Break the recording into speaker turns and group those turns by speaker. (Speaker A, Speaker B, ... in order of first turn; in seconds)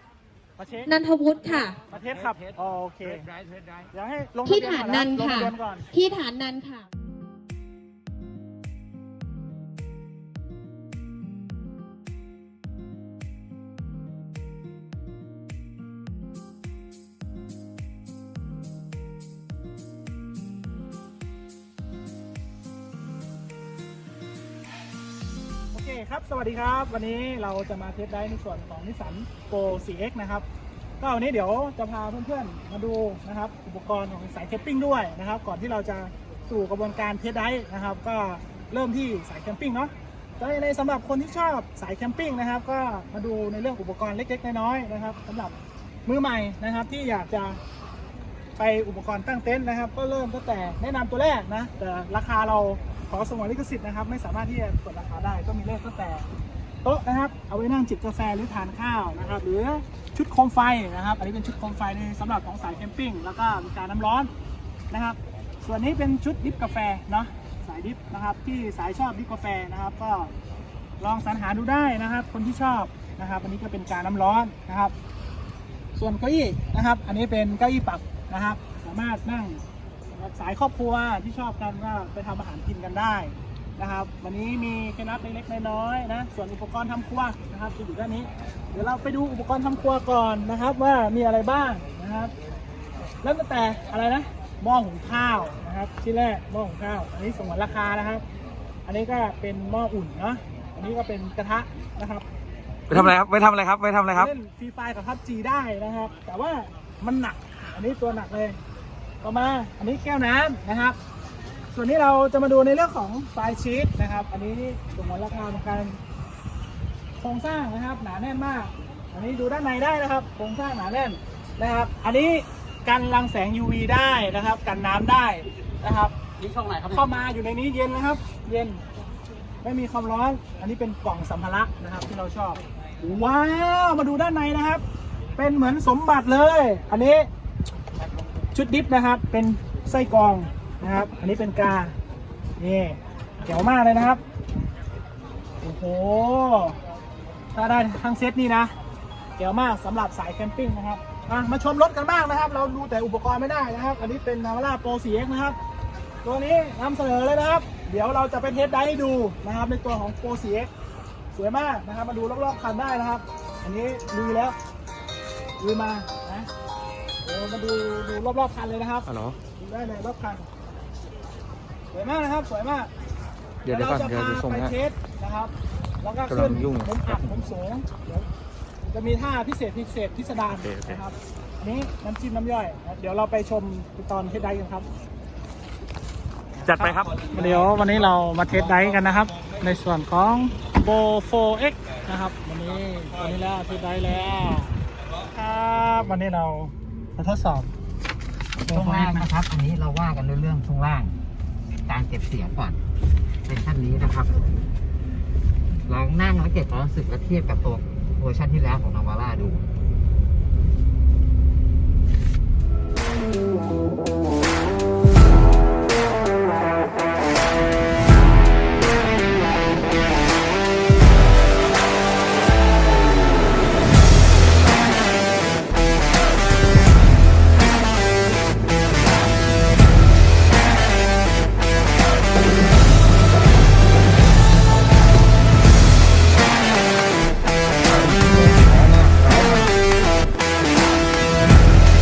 Speaker A: 0.6-0.9, 1.7-3.3, 3.9-5.9, 25.7-30.5, 31.0-47.6, 48.6-56.3, 56.8-64.3, 64.9-70.3, 71.0-74.9, 76.0-92.3, 93.2-98.2, 98.9-102.2, 104.1-108.6, 109.2-111.0, 111.7-116.0, 117.2-126.2, 126.8-128.8, 129.6-134.8, 135.4-137.3, 138.5-141.9, 142.6-144.2, 145.6-146.8, 147.5-148.7, 149.4-155.6, 156.2-160.7, 161.3-164.6, 165.6-166.5, 167.2-170.5, 171.9-172.9, 173.7-178.3, 178.8-184.9, 186.7-194.7, 195.3-197.7, 198.7-199.3
Speaker B: 0.9-1.8, 4.5-6.9
Speaker C: 3.2-3.9, 102.9-104.3, 126.4-127.0, 169.1-169.4, 173.7-174.8, 176.3-177.3, 180.6-181.0, 186.7-187.3, 238.0-239.2
Speaker D: 198.7-201.2, 201.9-202.8, 203.5-204.5, 205.9-209.6